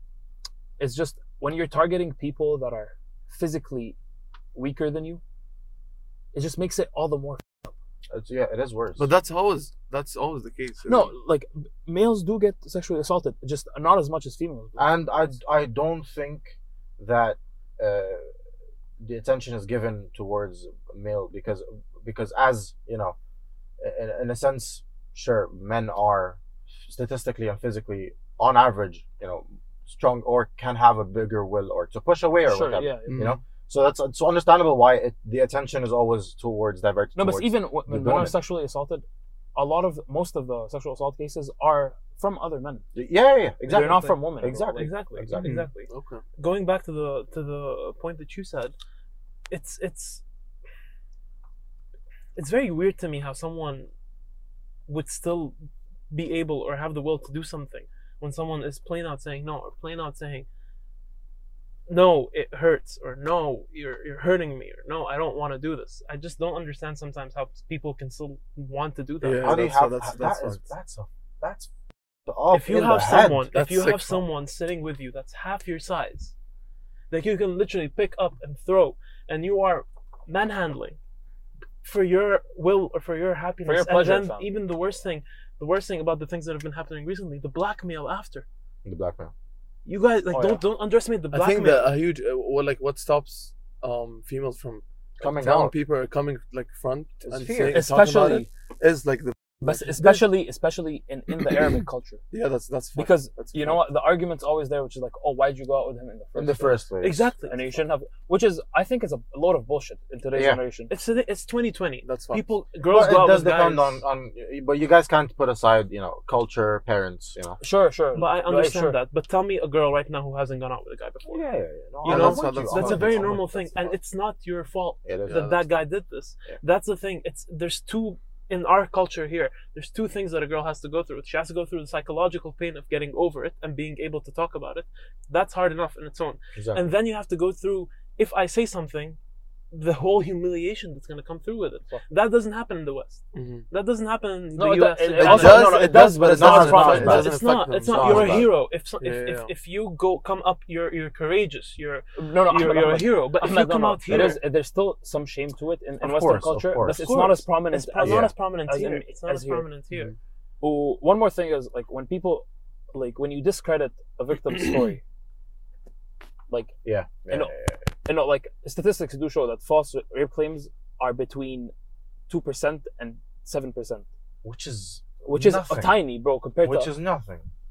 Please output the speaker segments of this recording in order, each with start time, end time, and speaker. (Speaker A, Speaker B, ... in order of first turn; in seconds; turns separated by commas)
Speaker A: 0.8-4.0, Speaker A: 4.5-5.2, Speaker A: 6.3-7.7, Speaker B: 8.1-9.1, Speaker C: 9.0-11.1, Speaker A: 10.8-15.2, Speaker B: 14.8-18.3, Speaker B: 19.0-23.1, Speaker B: 23.8-38.4, Speaker A: 32.4-33.2, Speaker C: 33.0-33.4, Speaker A: 37.1-42.8, Speaker B: 42.9-45.5, Speaker A: 43.6-45.1, Speaker D: 44.7-48.8, Speaker C: 45.4-46.2, Speaker D: 49.5-50.2, Speaker D: 52.3-53.9, Speaker D: 54.9-55.6, Speaker D: 56.1-60.5, Speaker D: 61.9-69.6, Speaker C: 69.2-70.7, Speaker B: 69.4-71.7, Speaker B: 72.2-73.5, Speaker D: 72.5-76.3, Speaker C: 73.5-74.2, Speaker D: 77.1-81.0, Speaker D: 81.8-88.5, Speaker A: 83.6-84.5, Speaker B: 88.8-89.3, Speaker D: 89.8-91.9, Speaker A: 90.3-90.6, Speaker C: 91.3-100.2, Speaker B: 95.2-95.7, Speaker B: 97.2-97.8, Speaker A: 97.6-98.5, Speaker A: 99.6-102.2, Speaker C: 101.3-101.7, Speaker C: 102.3-103.8, Speaker A: 102.9-106.9, Speaker B: 106.3-107.3, Speaker D: 107.0-107.8, Speaker A: 107.4-111.0, Speaker B: 110.3-110.6, Speaker D: 110.9-114.0, Speaker C: 112.0-112.6, Speaker B: 112.8-117.6, Speaker A: 117.6-119.0, Speaker D: 118.1-121.4, Speaker B: 121.2-124.0, Speaker C: 122.0-123.4, Speaker D: 122.1-139.2, Speaker B: 125.0-125.5, Speaker C: 125.3-125.7, Speaker B: 136.5-136.8, Speaker D: 139.7-145.8, Speaker C: 143.3-143.6, Speaker A: 144.5-147.3, Speaker C: 145.2-149.5, Speaker B: 145.5-147.2, Speaker D: 146.8-154.4, Speaker B: 147.9-148.4, Speaker A: 152.2-159.7, Speaker B: 156.0-157.1, Speaker D: 156.8-160.1, Speaker B: 158.0-158.4, Speaker A: 160.6-165.0, Speaker C: 164.4-165.0, Speaker A: 166.5-167.5, Speaker B: 166.8-167.9, Speaker A: 168.0-171.7, Speaker A: 172.3-174.1, Speaker B: 174.4-176.0, Speaker A: 175.2-176.9, Speaker B: 176.6-177.5